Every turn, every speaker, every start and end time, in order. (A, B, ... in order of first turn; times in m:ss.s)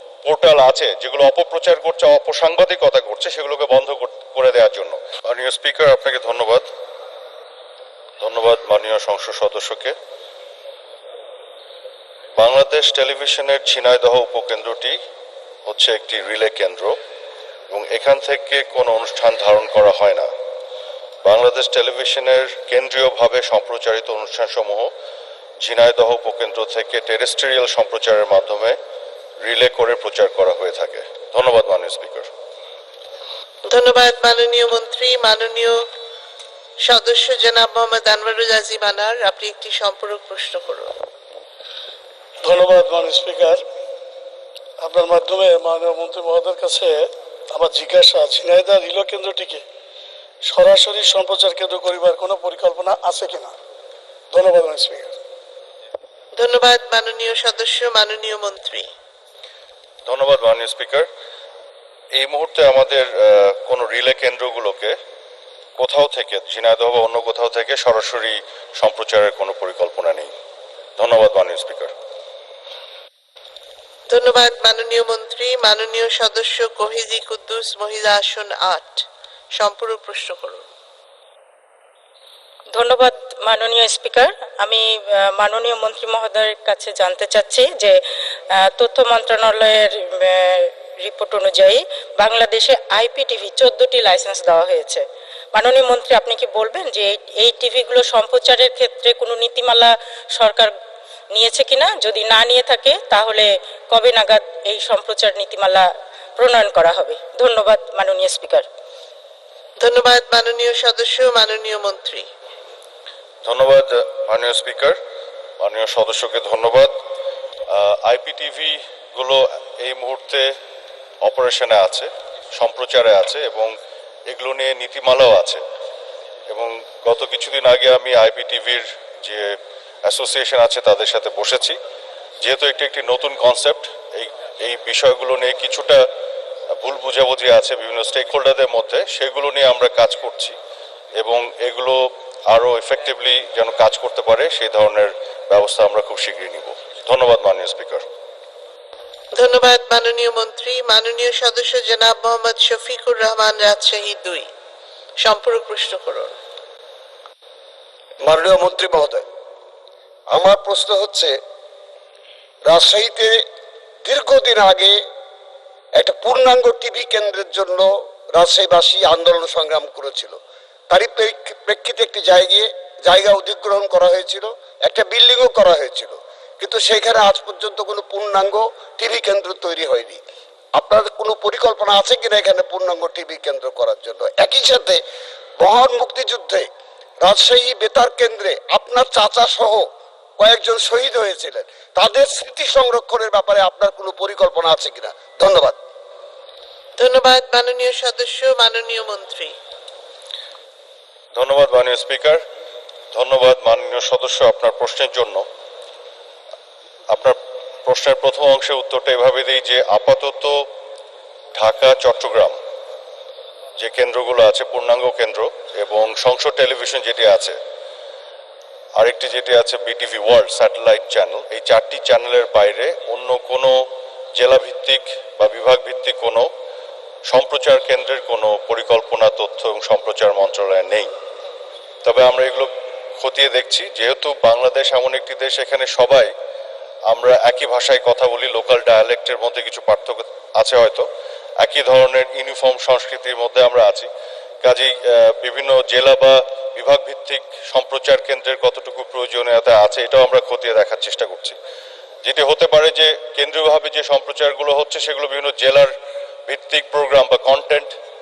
0:00.2-0:06.6 A
0:08.2-0:09.9 A
0:12.4-0:15.0 A
0:15.7-0:17.0 A
0:17.7-0:20.3 A
0:21.2-0:24.9 A
0:25.6-0:28.8 A
0:29.4-0:32.3 A
0:33.7-0:35.8 B
0:36.8-0:40.9 B
0:42.4-0:43.6 C
0:44.8-0:49.6 C
0:50.4-0:53.6 C
0:54.3-0:55.1 C
0:56.4-0:58.9 B
1:00.0-1:01.1 A
1:02.2-1:05.0 A
1:05.8-1:10.3 A
1:11.0-1:11.9 A
1:14.1-1:19.0 B
1:19.6-1:20.7 B
1:22.7-1:28.0 D
1:28.5-1:40.7 D
1:41.3-1:48.7 D
1:49.8-1:52.2 B
1:53.4-1:55.0 A
1:55.6-1:57.0 A
1:57.7-2:00.5 A
2:01.2-2:03.7 A
2:04.3-2:05.6 A
2:06.5-2:09.5 A
2:10.0-2:11.8 A
2:12.4-2:16.0 A
2:16.8-2:20.5 A
2:21.2-2:28.0 A
2:29.3-2:34.5 B
2:35.2-2:36.3 B
2:38.2-2:39.2 E
2:40.3-2:41.4 E
2:42.6-2:43.4 E
2:44.0-2:45.0 E
2:46.0-2:50.4 E
2:50.9-3:00.2 E
3:00.8-3:05.0 E
3:05.6-3:06.7 E
3:07.2-3:09.8 E
3:10.4-3:15.8 E
3:17.0-3:19.5 B
3:21.3-3:22.4 A
3:23.1-3:25.4 A
3:27.1-3:30.6 A
3:31.5-3:32.6 A
3:33.8-3:37.6 A
3:39.0-3:43.8 A
3:44.4-3:46.5 A
3:47.3-3:51.1 A
3:52.0-3:56.3 A
3:57.1-4:01.1 A
4:01.6-4:04.1 A
4:04.6-4:11.6 A
4:12.2-4:15.9 A
4:16.5-4:18.0 A